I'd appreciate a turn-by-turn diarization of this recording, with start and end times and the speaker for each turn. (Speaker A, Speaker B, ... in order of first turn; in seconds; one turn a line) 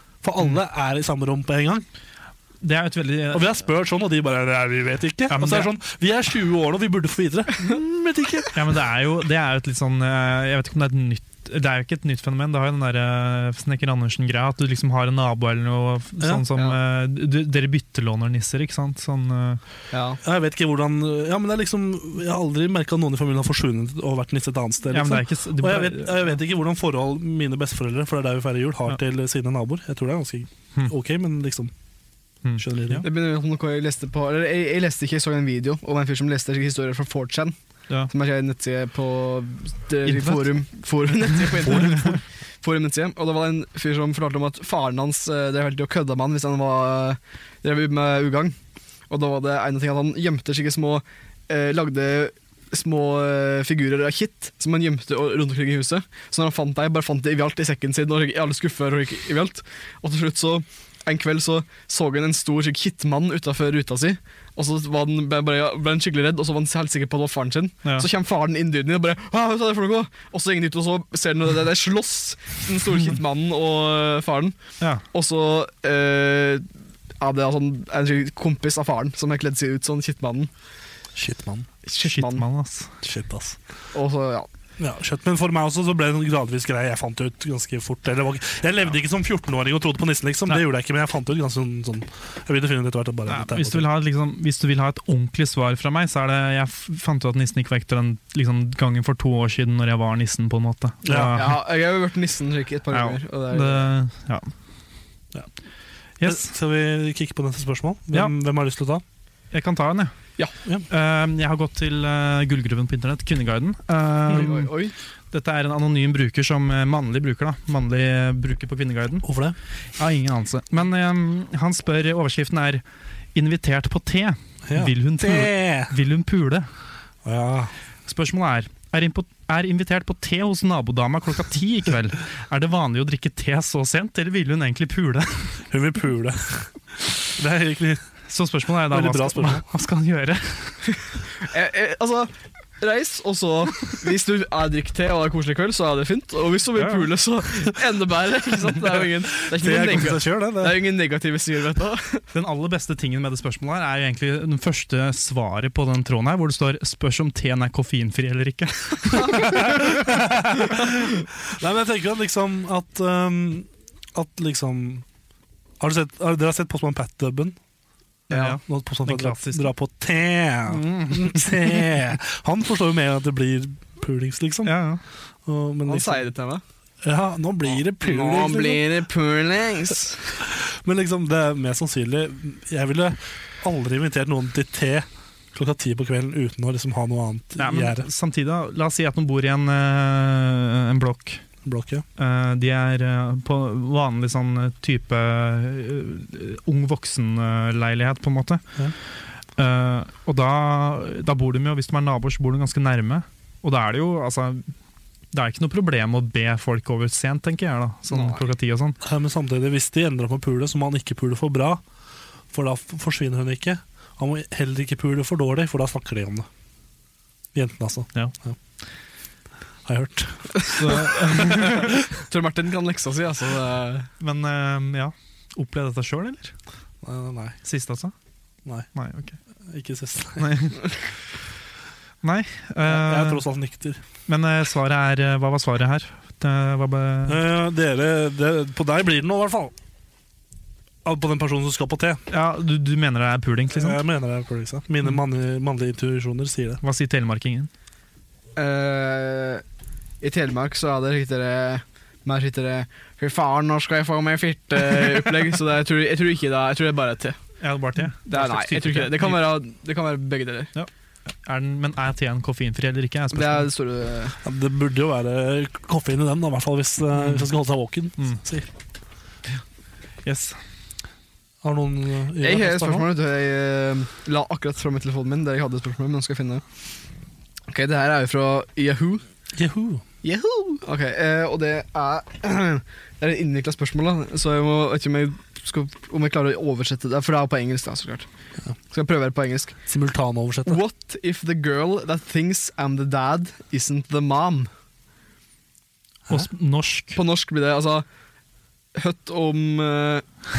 Speaker A: 0.2-1.9
Speaker B: 2.6-3.5
Speaker A: 3.3-8.6
Speaker B: 5.3-5.7
Speaker B: 8.5-19.6
Speaker A: 16.2-16.5
Speaker C: 19.9-20.2
Speaker A: 20.2-31.7
Speaker B: 24.9-26.4
Speaker B: 32.4-33.0
Speaker A: 32.6-33.1
Speaker C: 33.0-37.6
Speaker C: 38.1-48.6
Speaker B: 40.1-40.4
Speaker B: 41.6-42.0
Speaker C: 49.1-74.6
Speaker C: 75.1-76.7
Speaker C: 77.2-80.5
Speaker A: 81.2-81.7
Speaker C: 81.9-82.5
Speaker B: 82.0-83.0
Speaker A: 83.0-83.6
Speaker C: 83.9-84.5
Speaker A: 84.8-93.9
Speaker B: 93.3-101.6
Speaker A: 101.0-101.4
Speaker C: 101.3-103.9
Speaker B: 102.9-104.5
Speaker B: 106.2-106.5
Speaker A: 106.2-109.0
Speaker B: 109.5-110.1
Speaker B: 110.9-114.7
Speaker C: 114.3-115.0
Speaker B: 115.3-119.3
Speaker A: 119.2-119.6
Speaker B: 120.0-122.8
Speaker B: 123.3-126.7
Speaker A: 124.7-125.9
Speaker A: 127.2-127.7
Speaker B: 128.1-135.6
Speaker A: 135.7-138.1
Speaker B: 138.3-140.8
Speaker A: 138.9-139.6
Speaker C: 141.4-152.2
Speaker B: 146.8-147.1
Speaker A: 149.4-150.8
Speaker B: 152.3-160.2
Speaker A: 159.6-160.9
Speaker A: 161.4-165.1
Speaker A: 165.8-167.6
Speaker B: 168.3-169.7
Speaker C: 168.3-168.6
Speaker A: 168.6-174.7
Speaker B: 170.7-171.9
Speaker B: 174.6-175.0
Speaker A: 175.5-176.3
Speaker C: 175.9-176.6
Speaker A: 177.0-178.8
Speaker C: 178.0-180.4
Speaker A: 180.5-188.1
Speaker B: 187.6-191.4
Speaker A: 191.6-192.1
Speaker B: 192.2-198.6
Speaker B: 199.6-204.7
Speaker B: 205.3-209.0
Speaker C: 208.1-208.5
Speaker A: 209.0-211.8
Speaker A: 212.5-216.5
Speaker A: 217.5-218.6
Speaker A: 219.9-221.8
Speaker B: 220.7-221.9
Speaker C: 221.0-224.1
Speaker B: 224.2-226.5
Speaker A: 227.0-227.6
Speaker B: 227.6-228.1
Speaker B: 228.9-229.4
Speaker A: 229.7-230.7
Speaker B: 230.4-231.0
Speaker B: 232.2-233.4
Speaker A: 232.8-234.0
Speaker B: 234.3-237.4
Speaker A: 237.3-239.7
Speaker A: 241.1-242.2
Speaker B: 242.3-244.0
Speaker A: 243.7-246.8
Speaker B: 246.8-247.7
Speaker C: 248.6-249.6
Speaker C: 250.2-257.4
Speaker B: 257.6-259.6
Speaker C: 258.3-260.7
Speaker B: 260.8-263.7
Speaker C: 263.3-264.4
Speaker A: 264.4-268.7
Speaker B: 267.2-267.5
Speaker B: 270.2-270.6
Speaker A: 271.6-273.1
Speaker C: 272.4-276.6
Speaker C: 277.7-279.2
Speaker A: 279.6-280.0
Speaker C: 280.2-288.3
Speaker C: 288.9-289.8
Speaker A: 289.9-290.8
Speaker C: 290.6-294.7
Speaker B: 296.3-297.2
Speaker C: 297.1-298.1
Speaker C: 298.9-300.3